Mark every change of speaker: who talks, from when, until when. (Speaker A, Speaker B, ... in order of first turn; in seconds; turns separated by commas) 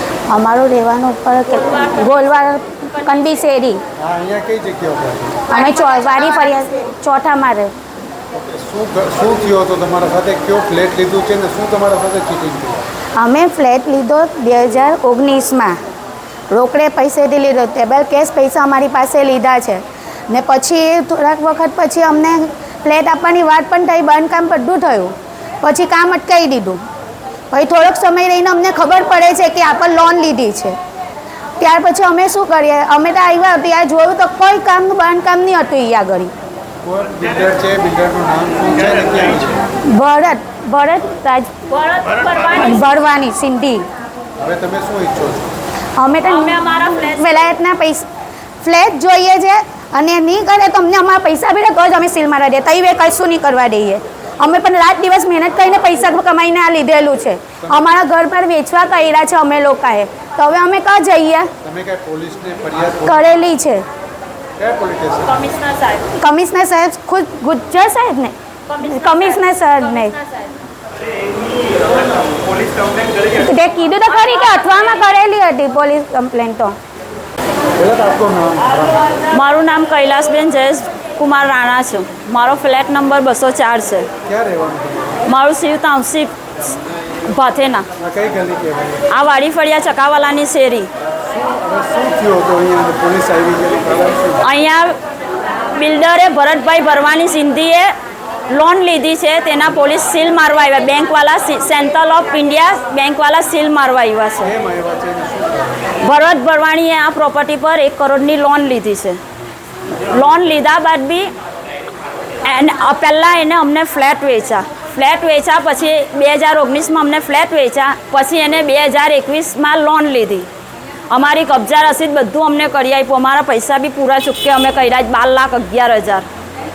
Speaker A: 0.3-3.8, Speaker B: 4.0-5.5, Speaker A: 5.5-7.7, Speaker B: 8.3-12.9, Speaker A: 13.2-15.8, Speaker A: 16.5-26.8, Speaker A: 27.5-30.8, Speaker A: 31.6-36.3, Speaker B: 36.8-39.6, Speaker A: 39.9-41.6, Speaker C: 41.7-43.0, Speaker A: 42.5-43.8, Speaker B: 44.4-45.5, Speaker A: 46.0-48.0, Speaker C: 46.2-47.5, Speaker A: 48.6-61.5, Speaker B: 57.6-57.9, Speaker B: 61.6-63.4, Speaker A: 63.0-63.8, Speaker B: 64.6-65.5, Speaker C: 65.4-66.1, Speaker A: 66.2-70.2, Speaker C: 68.7-69.4, Speaker C: 70.1-70.5, Speaker A: 73.3-76.8, Speaker B: 77.8-79.1, Speaker C: 79.3-84.1, Speaker B: 84.2-85.3, Speaker C: 85.2-86.3, Speaker C: 87.3-87.9, Speaker B: 88.0-89.0, Speaker C: 89.1-90.9, Speaker B: 91.2-94.4, Speaker C: 94.4-94.9, Speaker C: 95.8-97.9, Speaker C: 98.5-104.5, Speaker B: 104.4-105.9, Speaker C: 106.0-109.2, Speaker C: 110.0-111.3, Speaker C: 112.4-120.5, Speaker C: 121.1-126.2